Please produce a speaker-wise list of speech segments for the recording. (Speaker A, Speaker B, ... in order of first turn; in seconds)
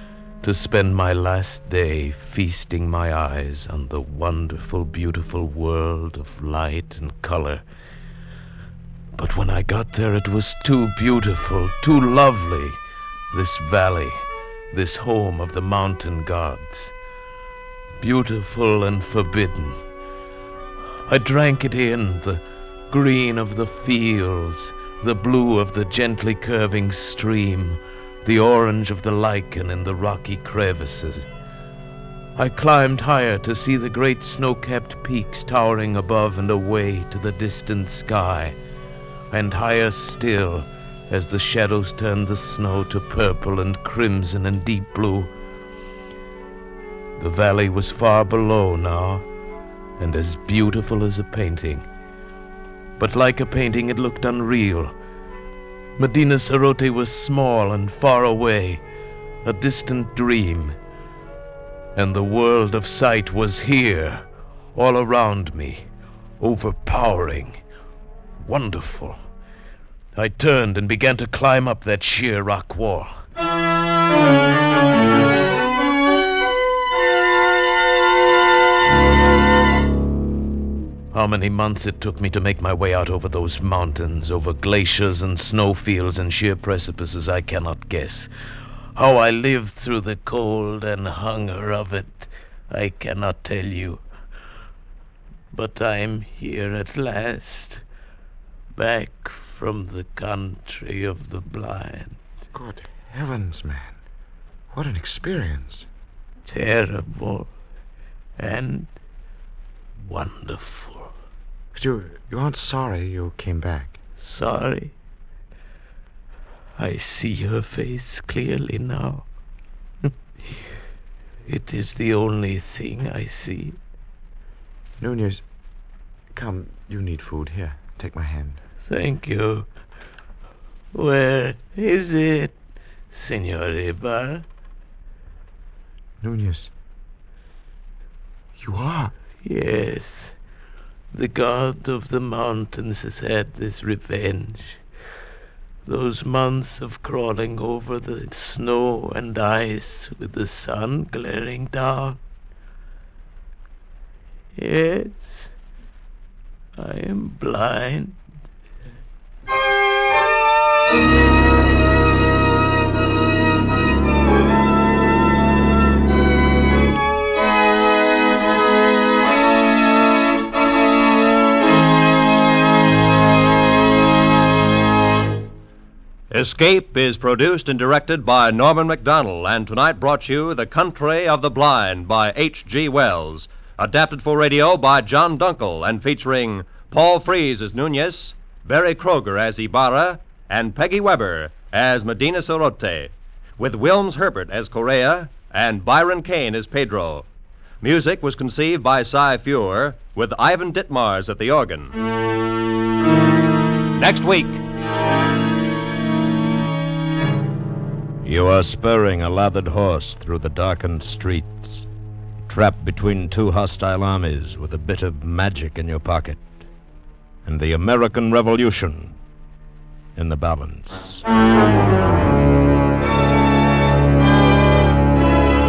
Speaker A: 0.4-7.6, 9.1-12.8, 13.3-16.9, 18.0-19.8, 21.1-31.3, 32.4-38.5, 39.3-45.3, 47.2-49.2, 50.0-51.9, 53.0-54.9, 56.0-58.8, 59.4-60.8, 62.0-65.9, 66.4-67.6, 68.4-69.2, 70.2-73.2, 81.1-88.3, 88.9-94.0, 95.5-97.8, 98.7-102.2, 106.5-107.5, 108.4-108.9, 110.0-111.1, 114.2-114.9, 116.8-119.2, 120.0-120.6, 121.5-123.8, 128.8-129.7, 130.9-132.5, 133.1-134.4, 139.4-140.3, 141.1-144.8, 145.8-152.2, 154.6-155.5, 156.8-158.2
Speaker B: 102.5-104.0, 104.7-105.9, 111.7-114.0, 125.0-125.4, 126.3-128.6, 136.2-136.7, 138.6-139.1
Speaker C: 176.3-197.3, 197.8-202.0, 203.9-204.6
Speaker D: 208.2-211.8, 212.5-216.7, 217.4-219.2, 220.2-221.2